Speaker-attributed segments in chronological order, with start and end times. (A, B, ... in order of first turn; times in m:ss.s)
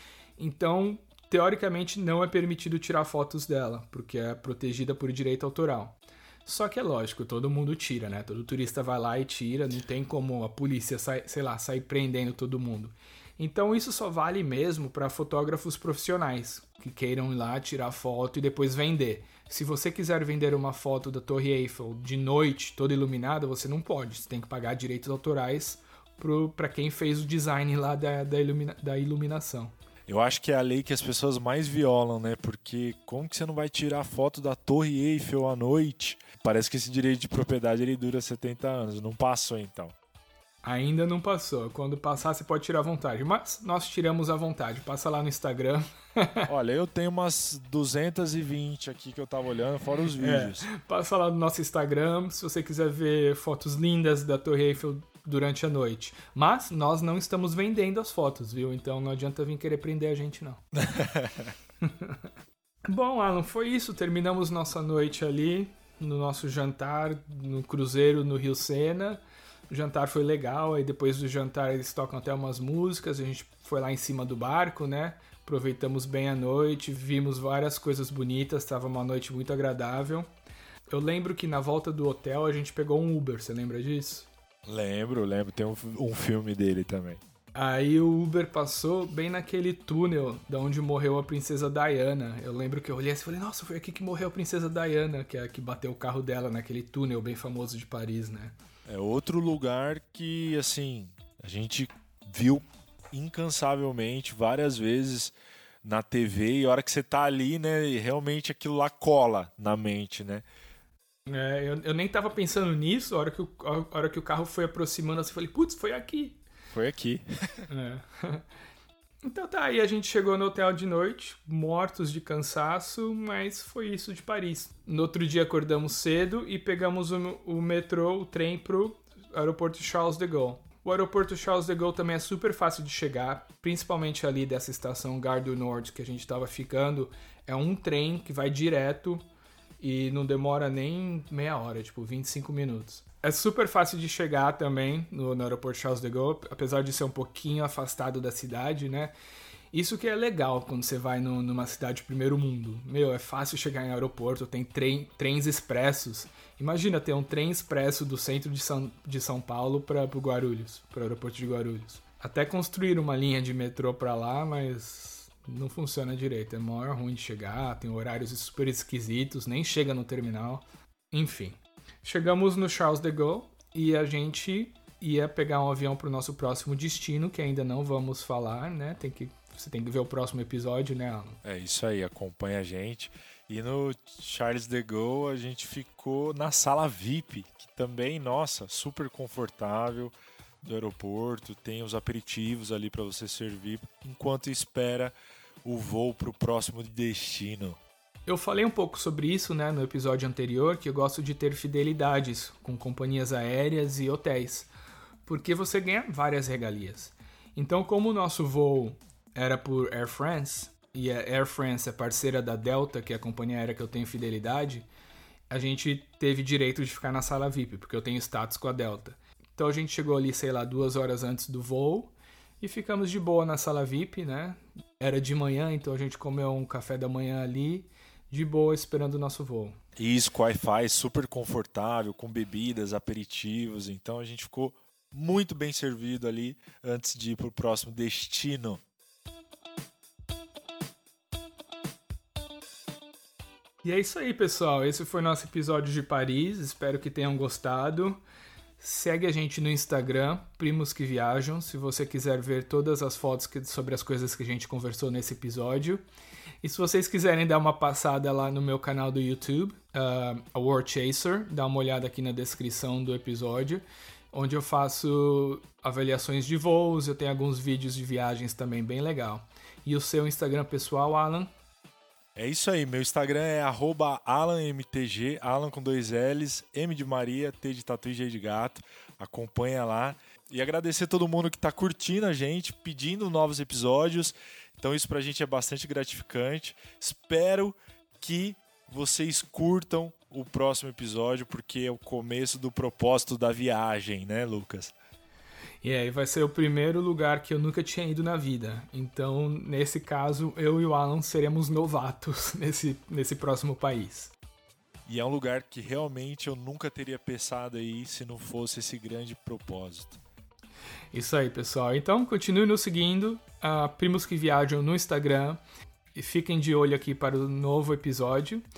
0:00.4-0:29.7 A
0:30.1-0:40.0 B
0:40.6-0:46.5 A
0:46.5-0:50.7 B
0:50.2-1:00.6 A
1:00.8-1:01.5 B
1:01.8-1:02.3 A
1:02.9-1:20.3 A
1:20.9-1:24.3 A
1:24.7-1:27.2 B
1:27.6-1:38.6 A
1:38.9-1:50.4 B
1:51.3-1:56.4 A
1:56.7-1:57.7 B
1:57.7-1:58.4 A
1:59.2-2:19.2 A
2:19.8-2:29.1 A
2:29.7-3:01.4 A
3:01.4-3:17.8 B
3:18.3-3:24.7 A
3:25.3-3:34.9 A
3:35.5-3:49.8 A
3:50.0-3:58.8 B
4:03.8-4:08.2 A
4:08.8-4:16.0 A
4:16.6-4:31.5 A
4:32.4-4:54.9 B
4:55.8-5:04.3 A
5:05.1-5:10.2 B
5:11.1-5:15.6 A
5:16.2-5:18.6 A